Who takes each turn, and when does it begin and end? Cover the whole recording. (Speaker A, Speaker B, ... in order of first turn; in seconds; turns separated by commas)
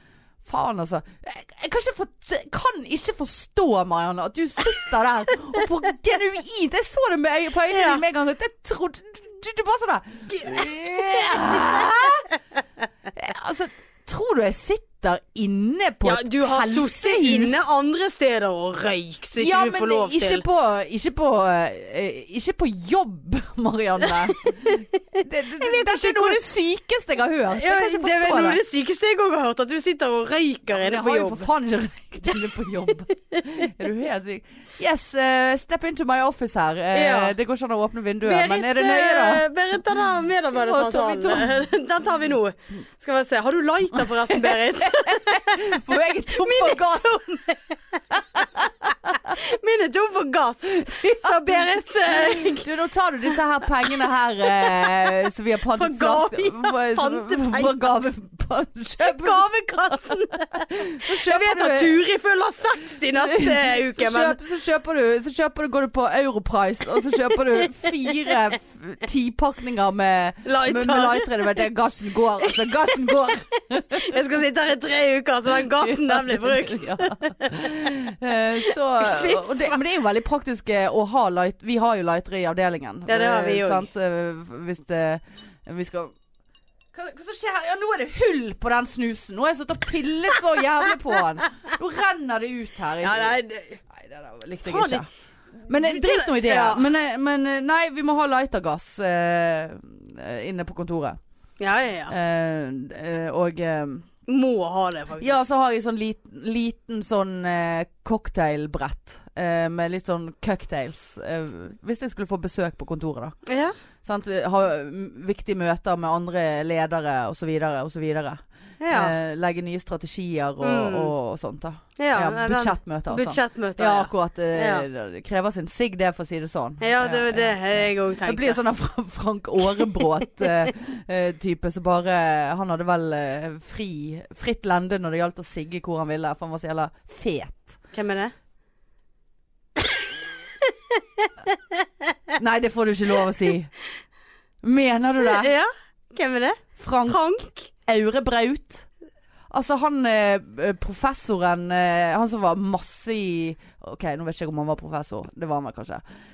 Speaker A: 0.5-12.3, Speaker B: 7.7-8.0, Speaker B: 10.3-11.9, Speaker A: 13.1-17.6, Speaker B: 16.0-20.4, Speaker A: 19.4-28.6, Speaker B: 24.0-26.4, Speaker B: 27.5-31.5, Speaker A: 30.7-39.5, Speaker B: 36.9-37.4, Speaker B: 38.2-52.7, Speaker A: 40.6-41.6, Speaker A: 44.3-47.2, Speaker A: 48.4-49.3, Speaker A: 50.8-62.0, Speaker B: 54.6-55.0, Speaker B: 55.7-57.7, Speaker B: 59.0-64.4, Speaker A: 63.2-74.2, Speaker B: 70.5-71.4, Speaker B: 72.4-73.4, Speaker B: 73.9-77.9, Speaker A: 75.6-86.2, Speaker B: 78.7-79.8, Speaker B: 83.1-83.9, Speaker A: 86.9-93.4, Speaker B: 93.0-93.8, Speaker A: 93.9-95.1, Speaker B: 94.6-95.0, Speaker A: 95.7-101.2, Speaker B: 95.7-96.9, Speaker B: 101.6-102.2, Speaker A: 102.1-104.1, Speaker B: 104.3-105.4, Speaker A: 105.2-113.4, Speaker B: 113.5-113.8, Speaker A: 114.0-137.8, Speaker B: 118.8-119.1, Speaker B: 120.6-121.1, Speaker B: 122.0-124.9, Speaker B: 126.8-128.6, Speaker B: 137.9-138.3, Speaker B: 140.6-141.8, Speaker A: 142.4-143.7, Speaker A: 144.6-145.5, Speaker B: 145.2-147.7, Speaker A: 146.8-147.2, Speaker A: 147.9-148.9, Speaker A: 149.5-156.0